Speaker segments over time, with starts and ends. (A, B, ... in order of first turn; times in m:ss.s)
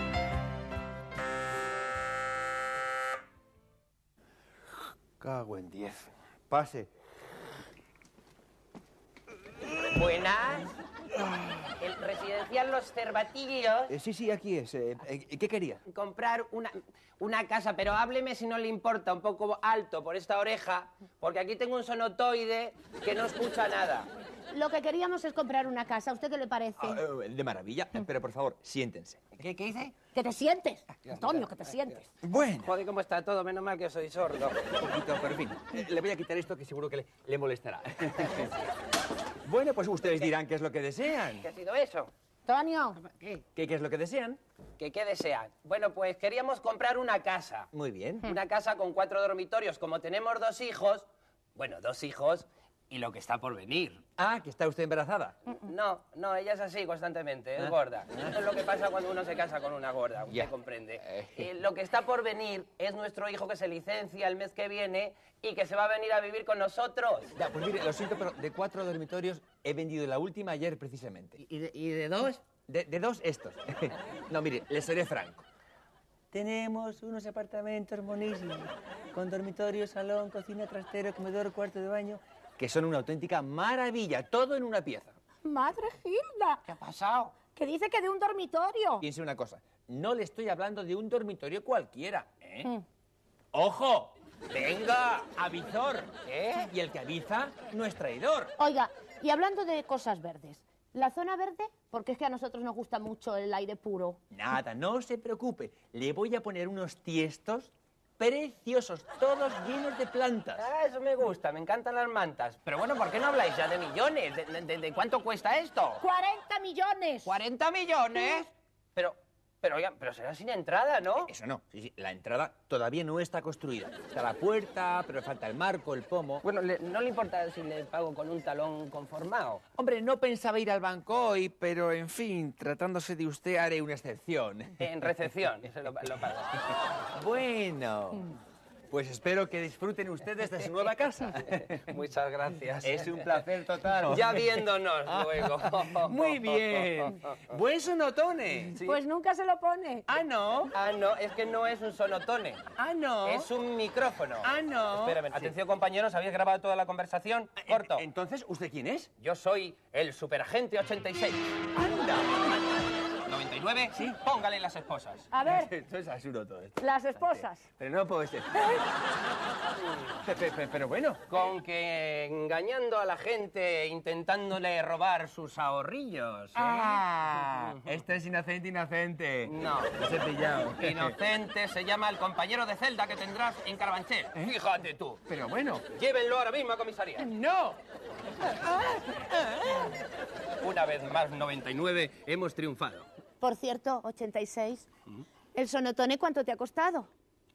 0:05.2-0:06.9 A
0:09.9-0:10.7 B
0:11.8-0:13.9 B
0:13.9-0:15.8 A
0:15.9-0:24.1 B
0:24.5-0:27.0 C
0:26.8-0:29.3 A
0:29.4-0:30.0 B
0:30.1-0:32.1 C
0:31.1-0:31.7 B
0:32.2-0:32.7 A
0:32.6-0:34.6 B
0:34.8-0:38.6 A
0:39.4-0:41.5 A
0:41.4-0:42.1 B
0:42.5-0:43.1 C
0:43.3-0:44.4 A
0:44.8-0:47.7 B
0:47.7-0:48.4 A
0:48.2-0:54.0 B
0:54.2-0:55.4 A
0:55.5-1:07.3 B
0:57.6-0:58.3 A
1:01.1-1:01.5 A
1:07.4-1:11.4 A
1:11.5-1:12.2 B
1:12.5-1:15.4 A
1:16.3-1:25.2 A
1:25.4-1:26.6 C
1:26.7-1:27.4 B
1:27.5-1:29.0 C
1:29.0-1:32.7 A
1:33.5-1:34.2 A
1:34.5-1:35.1 B
1:35.0-1:38.5 A
1:36.3-1:36.7 B
1:38.6-1:44.2 C
1:44.3-1:50.7 A
1:50.6-1:56.0 B
1:56.0-1:57.3 C
1:57.2-2:01.3 B
2:01.3-2:06.4 A
2:06.4-2:09.6 B
2:09.8-2:14.9 A
2:14.8-2:16.5 B
2:17.2-2:18.4 A
2:18.9-2:22.0 A
2:21.6-2:23.4 B
2:22.8-2:28.8 A
2:24.0-2:27.3 B
2:28.8-2:30.1 C
2:30.1-2:30.7 A
2:30.2-2:32.7 B
2:32.8-2:33.5 A
2:33.2-2:38.0 B
2:34.4-2:35.6 A
2:37.6-2:39.1 A
2:39.2-2:41.4 B
2:41.8-2:42.3 A
2:43.3-2:45.3 B
2:45.3-2:45.7 C
2:45.4-2:48.8 A
2:46.8-2:47.6 C
2:50.2-2:51.2 A
2:51.3-2:57.0 B
2:56.6-3:01.2 A
2:59.4-3:00.0 B
3:00.8-3:05.2 B
3:05.3-3:05.9 A
3:05.9-3:07.3 B
3:07.2-3:07.8 A
3:08.5-3:09.8 A
3:10.6-3:13.1 B
3:13.4-3:14.9 C
3:15.5-3:17.1 C